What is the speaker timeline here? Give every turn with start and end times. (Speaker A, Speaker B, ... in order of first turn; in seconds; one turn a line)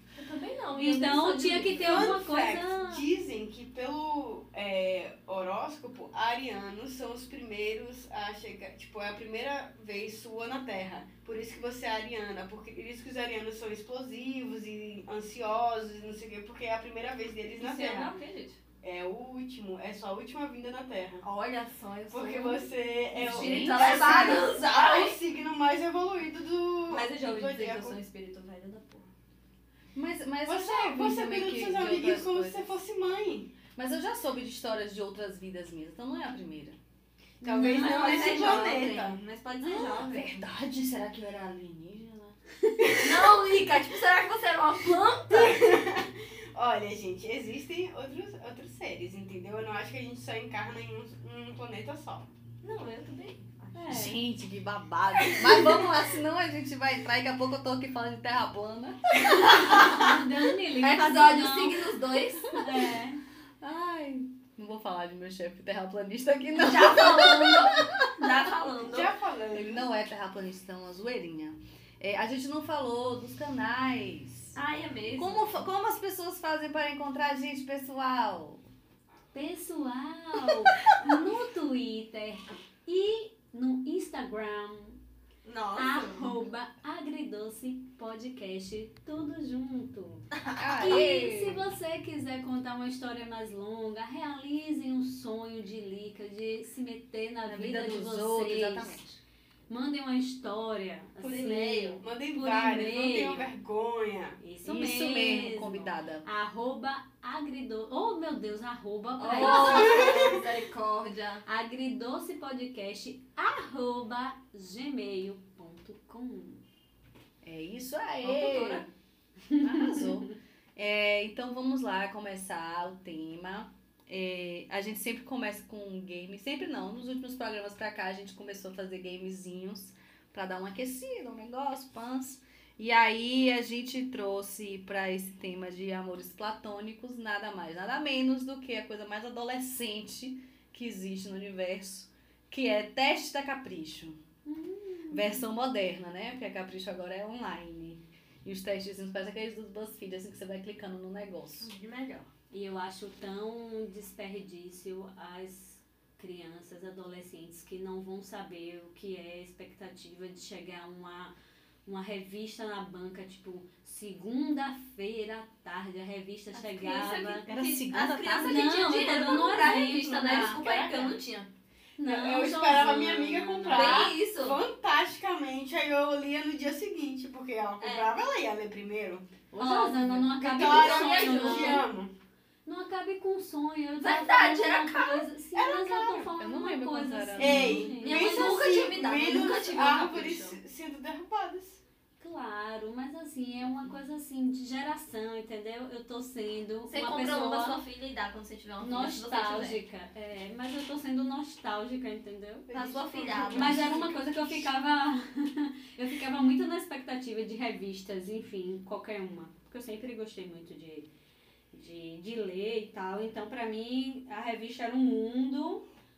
Speaker A: 0.1-2.1
Speaker B: 0.8-3.0
Speaker C: 1.8-18.1
Speaker A: 17.6-18.6
Speaker C: 18.8-21.2
Speaker A: 21.2-22.7
Speaker C: 22.1-28.0
Speaker D: 23.1-24.5
Speaker A: 23.2-25.2
Speaker A: 26.9-29.1
Speaker D: 29.9-32.7
Speaker C: 30.4-33.5
Speaker D: 33.7-36.8
Speaker C: 37.4-39.2
Speaker A: 37.5-40.4
Speaker D: 37.5-42.4
Speaker C: 42.8-43.1
Speaker A: 42.9-45.7
Speaker C: 45.3-52.3
Speaker A: 52.6-53.8
Speaker B: 53.7-54.2
Speaker D: 53.9-60.0
Speaker C: 55.3-55.8
Speaker A: 59.5-59.9
Speaker B: 59.7-61.9
Speaker A: 60.8-62.6
Speaker B: 62.5-63.2
Speaker D: 63.6-68.3
Speaker A: 66.5-69.1
Speaker C: 68.8-69.8
Speaker D: 69.5-74.5
Speaker A: 74.5-75.5
Speaker D: 75.2-78.6
Speaker B: 79.3-85.0
Speaker A: 85.4-86.3
Speaker B: 85.8-99.0
Speaker A: 90.6-91.2
Speaker D: 90.6-91.6
Speaker D: 97.5-99.2
Speaker B: 99.7-103.5
Speaker C: 101.2-104.4
Speaker B: 104.4-110.1
Speaker D: 104.6-106.2
Speaker A: 109.2-111.4
Speaker D: 109.4-110.0
Speaker C: 109.5-110.5
Speaker B: 111.5-116.6
Speaker D: 117.4-118.8
Speaker A: 118.2-118.9
Speaker B: 119.5-120.3
Speaker D: 119.6-144.2
Speaker B: 144.4-145.4
Speaker D: 145.1-151.7
Speaker A: 151.6-152.3
Speaker B: 152.5-161.3
Speaker B: 161.8-167.5
Speaker A: 166.5-171.5
Speaker D: 167.5-168.7
Speaker B: 168.4-170.6
Speaker C: 170.4-171.1
Speaker B: 172.0-174.1
Speaker C: 172.0-182.1
Speaker A: 173.7-174.6
Speaker A: 177.8-178.1
Speaker B: 179.5-181.8
Speaker A: 179.6-181.8
Speaker B: 182.7-188.7
Speaker A: 184.0-185.3
Speaker C: 185.5-186.3
Speaker D: 186.4-187.9
Speaker C: 187.3-191.8
Speaker A: 188.0-190.6
Speaker B: 192.2-197.8
Speaker A: 196.9-199.8
Speaker B: 198.8-202.7
Speaker C: 202.7-204.2
Speaker A: 202.7-204.1
Speaker B: 203.5-211.1
Speaker B: 211.7-215.8